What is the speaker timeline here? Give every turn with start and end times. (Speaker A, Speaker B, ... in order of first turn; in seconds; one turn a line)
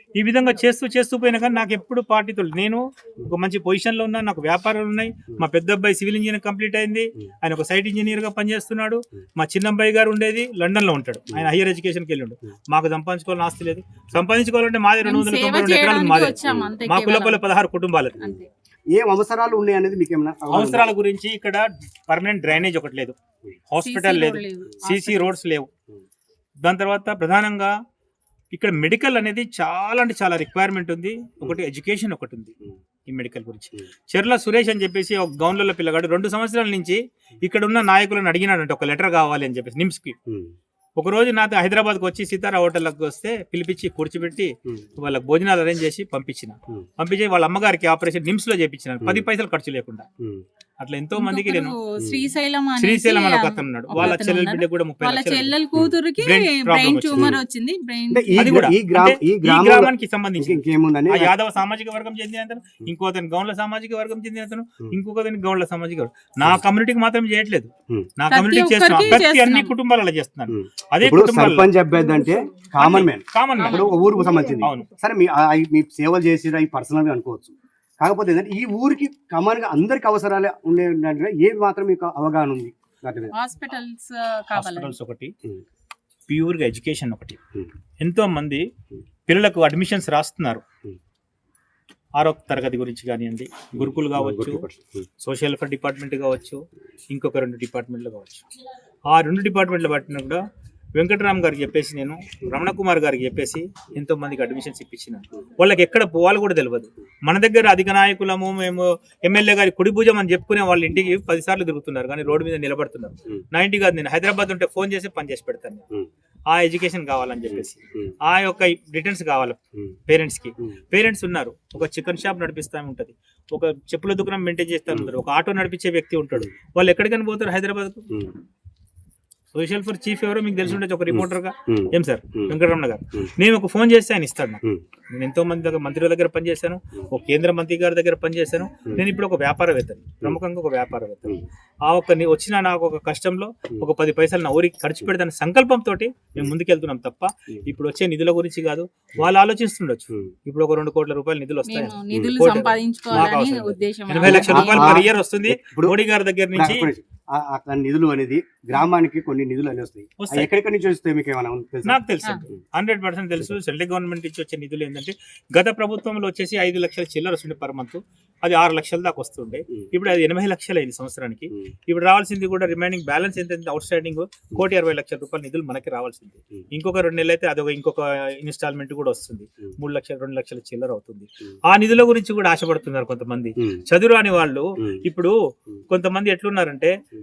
Speaker A: 0.1-18.2
Speaker B: 15.0-17.4
Speaker B: 18.2-18.5
Speaker C: 18.9-20.9
Speaker A: 20.5-23.1
Speaker A: 23.7-25.7
Speaker B: 23.8-25.4
Speaker A: 26.6-27.7
Speaker A: 28.5-40.1
Speaker C: 40.3-40.5
Speaker A: 41.0-50.0
Speaker A: 50.8-51.8
Speaker B: 51.1-58.5
Speaker C: 52.0-52.3
Speaker A: 52.8-55.5
Speaker A: 56.2-57.4
Speaker C: 58.1-61.3
Speaker A: 58.4-71.7
Speaker B: 68.3-69.7
Speaker C: 70.5-83.3
Speaker A: 72.8-73.9
Speaker B: 73.6-74.3
Speaker A: 74.6-74.9
Speaker B: 83.3-84.9
Speaker A: 84.5-85.3
Speaker A: 86.3-87.4
Speaker A: 88.0-88.6
Speaker A: 89.3-90.6
Speaker A: 92.2-94.6
Speaker C: 93.8-95.1
Speaker A: 95.2-98.5
Speaker A: 99.1-100.4
Speaker A: 101.0-115.8
Speaker A: 116.5-128.1
Speaker A: 129.5-156.9
Speaker C: 131.1-132.5
Speaker B: 151.7-155.0
Speaker C: 154.2-156.0
Speaker C: 156.5-162.0
Speaker A: 160.2-160.5
Speaker A: 161.8-185.3
Speaker A: 185.9-186.9